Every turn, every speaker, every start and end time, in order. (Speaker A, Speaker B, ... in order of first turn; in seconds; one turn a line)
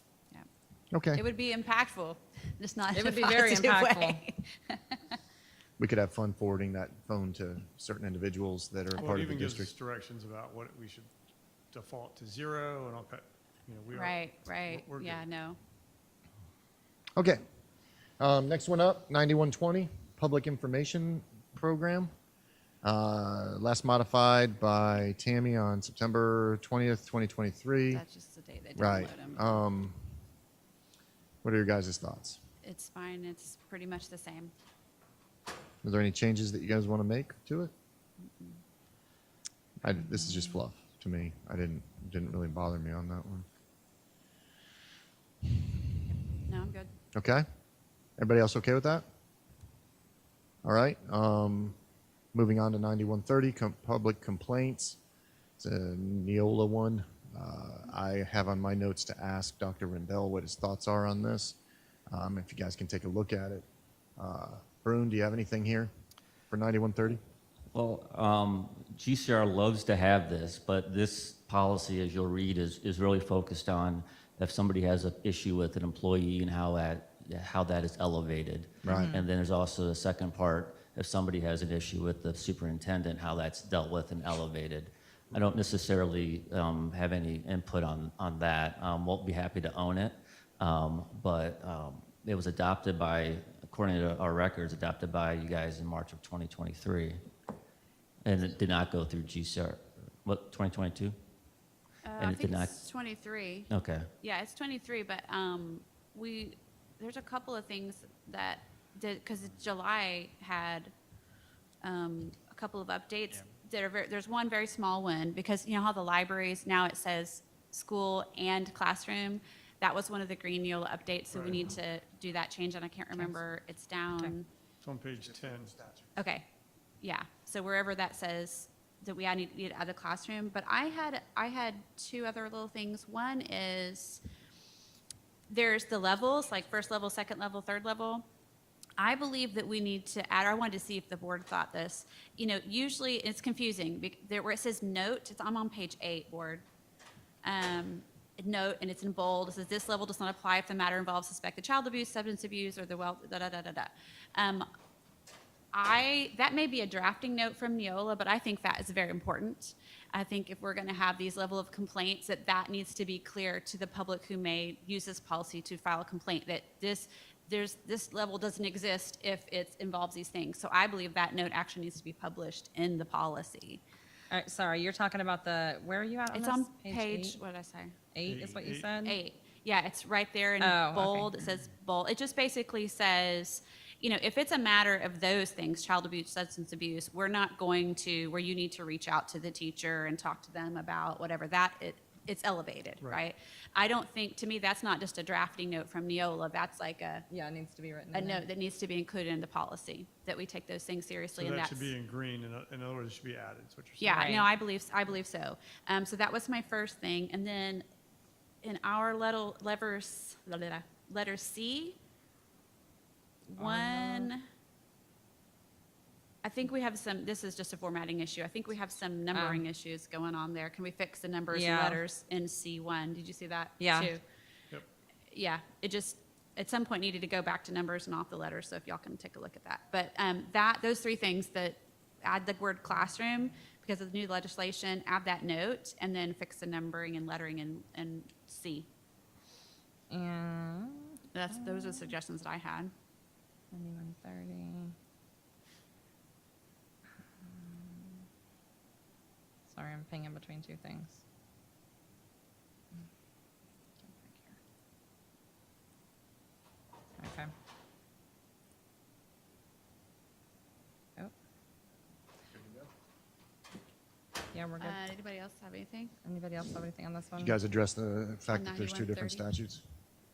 Speaker A: 0.9-1.2
Speaker B: 1.1-5.2
Speaker C: 2.9-4.2
Speaker A: 5.8-9.7
Speaker D: 9.0-11.1
Speaker D: 11.7-15.3
Speaker B: 13.9-15.6
Speaker A: 17.2-17.4
Speaker A: 18.2-22.1
Speaker A: 22.8-28.0
Speaker B: 27.9-29.6
Speaker A: 28.8-30.1
Speaker A: 31.4-32.4
Speaker B: 32.6-34.5
Speaker A: 35.8-37.7
Speaker B: 38.2-38.6
Speaker A: 39.8-43.5
Speaker B: 46.1-46.9
Speaker A: 47.1-47.5
Speaker A: 48.2-49.0
Speaker A: 50.6-51.8
Speaker A: 52.3-55.0
Speaker A: 55.6-61.6
Speaker A: 62.1-63.7
Speaker A: 64.2-65.9
Speaker A: 66.5-67.2
Speaker E: 67.7-97.2
Speaker A: 78.8-79.1
Speaker C: 78.9-79.2
Speaker E: 98.2-101.2
Speaker B: 102.0-103.7
Speaker E: 102.2-102.8
Speaker E: 103.7-104.1
Speaker B: 104.2-110.9
Speaker B: 111.8-124.5
Speaker D: 121.3-121.6
Speaker D: 124.8-125.8
Speaker B: 126.2-126.5
Speaker B: 127.0-134.2
Speaker B: 135.5-138.3
Speaker B: 139.0-146.6
Speaker B: 147.4-154.7
Speaker B: 155.7-173.8
Speaker C: 174.3-177.4
Speaker B: 176.3-177.9
Speaker C: 178.1-179.2
Speaker D: 178.2-178.9
Speaker B: 179.0-197.2
Speaker C: 180.6-181.4
Speaker C: 197.3-198.4
Speaker B: 198.1-201.9
Speaker D: 201.3-204.3
Speaker B: 204.0-207.8
Speaker C: 204.1-204.5
Speaker B: 208.6-212.0
Speaker B: 213.5-214.4
Speaker C: 213.6-214.3
Speaker B: 216.4-224.2
Speaker C: 219.3-219.6
Speaker C: 221.5-222.0
Speaker C: 223.8-224.1
Speaker B: 225.3-238.9
Speaker C: 240.1-242.2
Speaker B: 241.3-242.9
Speaker C: 243.7-244.9
Speaker C: 247.4-248.2
Speaker C: 249.7-251.2
Speaker C: 254.0-254.6
Speaker C: 257.2-257.5
Speaker C: 264.5-265.0
Speaker B: 264.8-266.1
Speaker C: 266.2-267.6
Speaker A: 267.4-269.8
Speaker B: 268.5-269.4